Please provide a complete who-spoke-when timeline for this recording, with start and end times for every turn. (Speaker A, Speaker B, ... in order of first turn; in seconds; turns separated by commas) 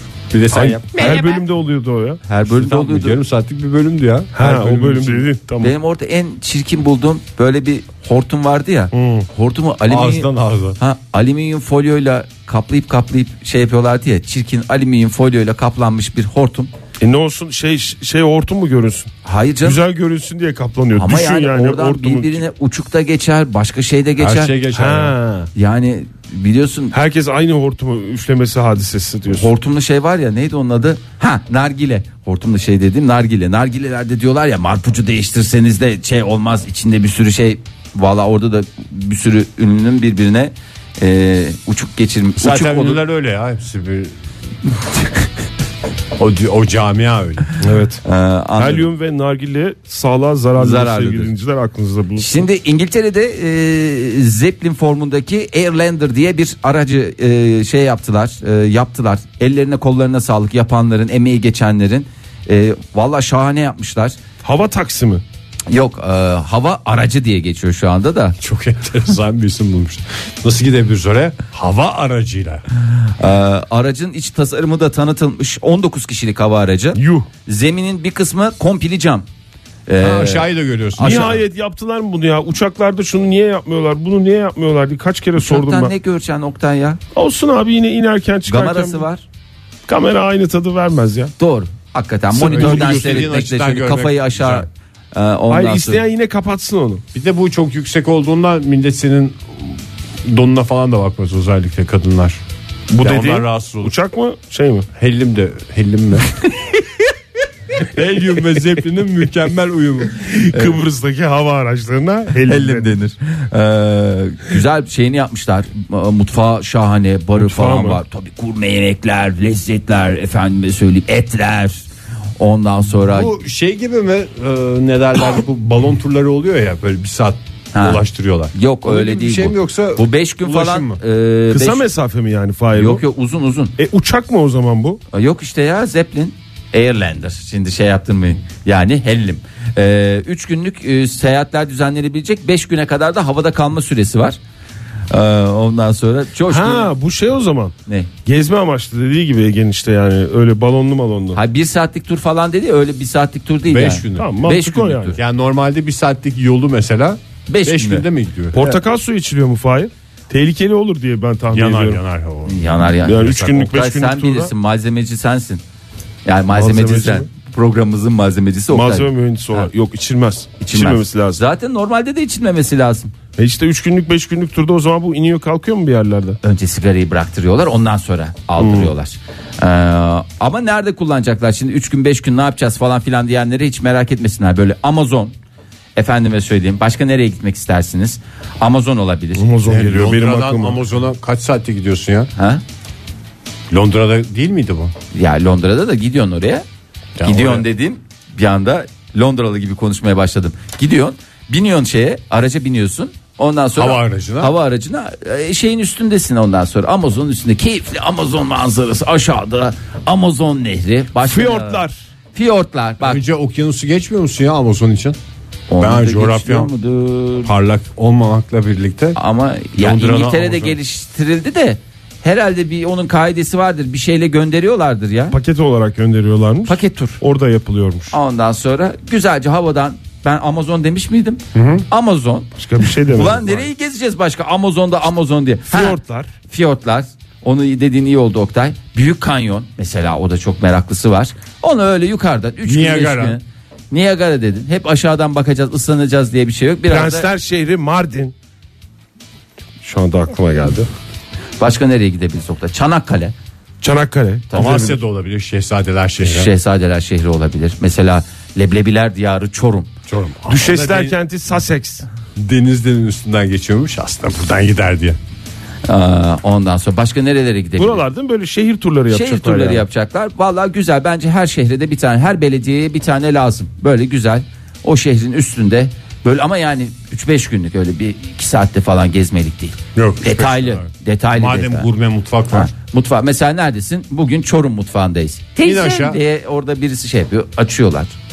Speaker A: 0.3-1.3, Speaker B: 0.5-2.2, Speaker C: 2.2-3.2, Speaker A: 2.5-5.3, Speaker B: 4.3-5.7, Speaker C: 5.6-16.7, Speaker B: 8.9-9.3, Speaker A: 9.9-10.8, Speaker B: 17.0-22.4, Speaker C: 19.2-19.8, Speaker C: 21.0-24.5, Speaker A: 24.2-25.2, Speaker B: 24.7-25.5, Speaker C: 25.6-26.9, Speaker B: 26.9-29.5, Speaker C: 29.3-43.0, Speaker A: 42.4-44.1, Speaker A: 46.2-47.5, Speaker B: 47.6-48.0, Speaker C: 48.0-48.9, Speaker B: 48.6-52.4, Speaker C: 50.6-51.3, Speaker C: 52.2-64.2, Speaker B: 64.4-65.2, Speaker C: 65.7-68.4, Speaker A: 68.4-72.6, Speaker C: 73.2-79.3, Speaker B: 77.0-77.3, Speaker C: 79.9-81.4, Speaker A: 80.0-81.4, Speaker B: 81.0-85.9, Speaker C: 85.4-87.0, Speaker B: 87.2-89.0, Speaker C: 88.5-89.2, Speaker B: 89.9-91.3, Speaker C: 91.4-96.0, Speaker A: 92.3-94.7, Speaker B: 92.5-93.1, Speaker B: 95.5-97.0, Speaker A: 97.1-102.4, Speaker B: 102.9-104.9, Speaker A: 103.0-103.9, Speaker A: 105.0-106.3, Speaker A: 107.8-110.2, Speaker B: 110.2-113.0, Speaker C: 112.5-121.9, Speaker B: 117.4-118.0, Speaker C: 122.4-123.3, Speaker A: 123.0-131.0, Speaker C: 127.7-128.0, Speaker C: 128.5-131.8, Speaker B: 131.5-133.0, Speaker C: 132.7-133.8, Speaker B: 133.8-135.0, Speaker C: 135.1-144.4, Speaker C: 145.1-146.9, Speaker B: 146.5-147.8, Speaker B: 148.3-151.4, Speaker C: 151.3-155.2, Speaker A: 153.7-154.4, Speaker B: 154.2-155.2, Speaker A: 155.2-158.6, Speaker C: 157.5-158.1, Speaker B: 158.5-162.0, Speaker A: 161.5-163.3, Speaker C: 162.5-165.6, Speaker B: 163.0-164.5, Speaker C: 166.2-169.7, Speaker B: 166.5-167.3, Speaker B: 168.7-171.4, Speaker C: 170.6-173.1, Speaker B: 173.4-176.4, Speaker C: 176.4-185.3, Speaker B: 178.6-178.9, Speaker C: 186.0-189.5, Speaker B: 189.4-190.8, Speaker A: 189.7-192.3, Speaker C: 192.4-192.6, Speaker A: 193.7-194.9, Speaker C: 195.1-196.7, Speaker A: 197.2-197.7, Speaker C: 197.2-211.8, Speaker A: 203.8-204.5, Speaker B: 211.2-211.9, Speaker C: 212.3-213.2, Speaker A: 213.0-215.2, Speaker C: 215.7-217.5, Speaker A: 215.8-216.7, Speaker A: 217.4-219.2, Speaker C: 219.2-225.4, Speaker A: 219.8-220.8, Speaker B: 225.3-228.1, Speaker C: 226.7-227.2, Speaker C: 228.1-232.5, Speaker A: 231.5-231.9, Speaker B: 232.6-233.7, Speaker C: 233.1-247.3, Speaker B: 235.7-236.3, Speaker A: 242.6-243.4, Speaker B: 246.9-248.3, Speaker B: 249.8-250.9, Speaker C: 251.6-253.3, Speaker B: 253.8-254.9, Speaker C: 254.5-254.9, Speaker A: 254.5-256.5, Speaker C: 256.2-259.9, Speaker A: 260.1-261.1, Speaker B: 260.5-262.1, Speaker A: 262.4-265.2, Speaker C: 265.9-268.0, Speaker B: 267.8-269.8, Speaker C: 269.1-281.9, Speaker A: 279.9-282.7, Speaker C: 282.5-288.1, Speaker A: 285.6-286.2